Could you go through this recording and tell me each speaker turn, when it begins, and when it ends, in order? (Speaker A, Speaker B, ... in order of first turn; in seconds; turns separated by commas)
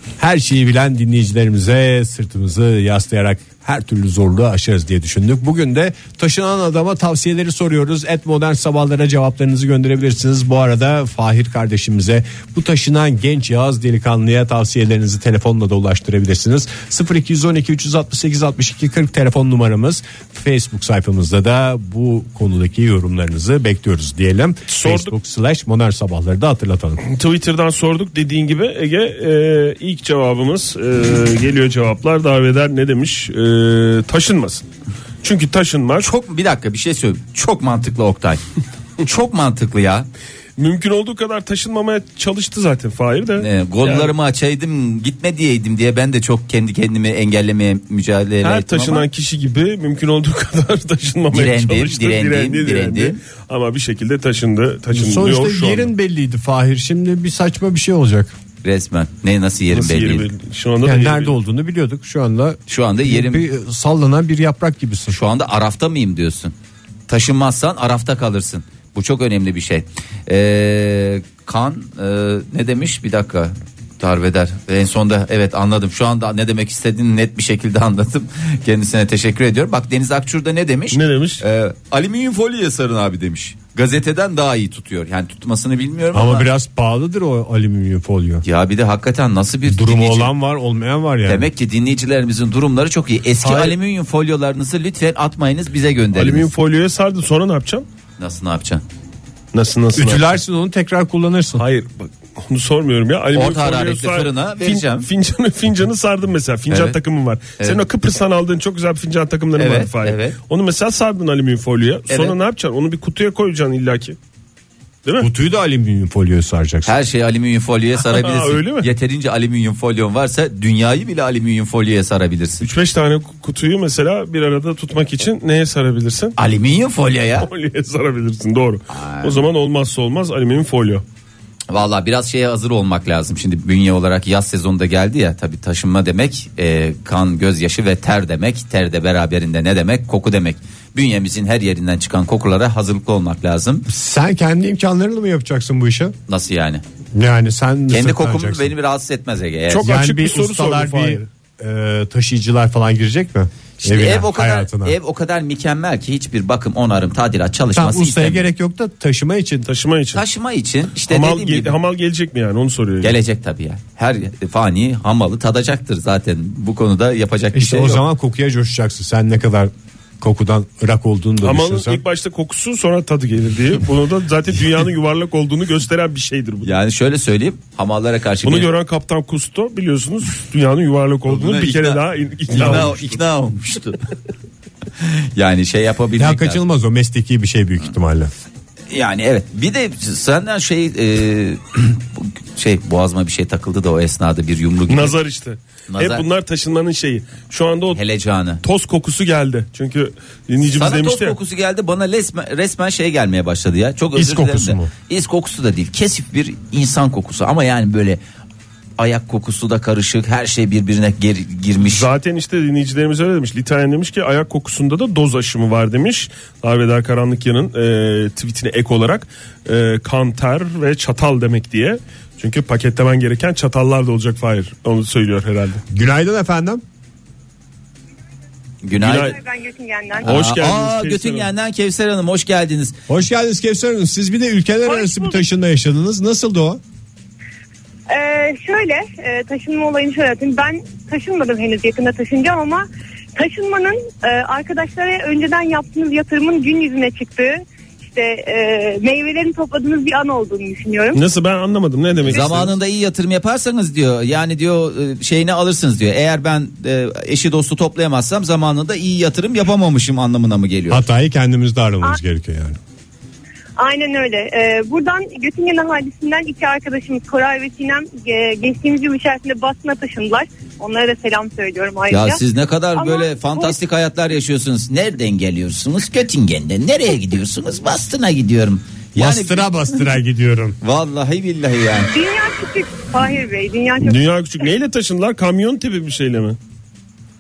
Speaker A: 0.2-27.0, Speaker B: 24.7-25.1, Speaker B: 27.0-34.6, Speaker B: 35.2-36.1, Speaker C: 36.0-38.4, Speaker C: 39.0-40.1, Speaker B: 40.6-44.1, Speaker C: 43.4-49.1, Speaker B: 48.4-55.9, Speaker C: 51.3-53.2, Speaker A: 54.9-58.3, Speaker C: 58.6-60.3, Speaker B: 59.7-61.3, Speaker A: 60.8-65.2, Speaker C: 62.7-63.5, Speaker C: 65.1-66.5, Speaker C: 67.1-86.5, Speaker B: 80.9-81.4, Speaker A: 86.1-88.4, Speaker C: 88.4-90.3, Speaker A: 89.7-91.5, Speaker C: 91.2-96.5, Speaker B: 93.4-93.7, Speaker B: 96.1-97.8, Speaker C: 98.2-98.8, Speaker B: 99.5-100.4, Speaker A: 100.0-101.6, Speaker B: 101.5-114.2, Speaker C: 103.3-105.1, Speaker C: 106.7-107.0, Speaker C: 107.6-107.8, Speaker C: 109.5-110.4, Speaker C: 112.1-112.4, Speaker A: 115.2-116.9, Speaker C: 116.8-122.7, Speaker B: 118.0-118.9, Speaker B: 122.6-126.3, Speaker C: 126.4-127.5, Speaker B: 127.4-131.0, Speaker C: 128.9-129.4, Speaker C: 131.7-143.9, Speaker A: 143.9-146.1, Speaker C: 146.3-146.8, Speaker A: 147.1-148.7, Speaker C: 147.9-149.9, Speaker B: 149.7-151.2, Speaker A: 149.8-154.9, Speaker C: 153.8-158.5, Speaker A: 157.7-159.7, Speaker B: 159.7-160.2, Speaker C: 160.1-161.8, Speaker B: 161.1-163.2, Speaker C: 163.0-168.0, Speaker A: 167.5-172.0, Speaker B: 171.4-176.7, Speaker C: 176.6-178.7, Speaker B: 178.4-183.0, Speaker C: 181.3-184.0, Speaker C: 185.0-186.6, Speaker A: 186.2-188.3, Speaker C: 188.9-195.2, Speaker B: 194.9-198.0, Speaker C: 195.9-196.2, Speaker C: 197.9-198.6, Speaker B: 198.6-201.3, Speaker C: 200.6-208.2, Speaker A: 204.1-204.9, Speaker C: 209.0-212.1, Speaker B: 211.8-225.8, Speaker A: 225.9-226.8, Speaker C: 228.8-229.3, Speaker B: 229.0-229.3, Speaker D: 229.0-230.3, Speaker B: 230.2-231.5, Speaker C: 230.2-233.0, Speaker A: 233.1-236.8, Speaker D: 234.8-235.4, Speaker D: 238.1-242.8, Speaker D: 243.3-251.2, Speaker B: 251.1-252.7, Speaker C: 252.2-261.1, Speaker A: 260.9-262.8, Speaker D: 263.8-272.4, Speaker C: 272.1-279.8, Speaker D: 272.9-273.8, Speaker A: 279.1-280.8, Speaker C: 280.8-282.1, Speaker D: 282.1-284.2, Speaker B: 284.0-286.6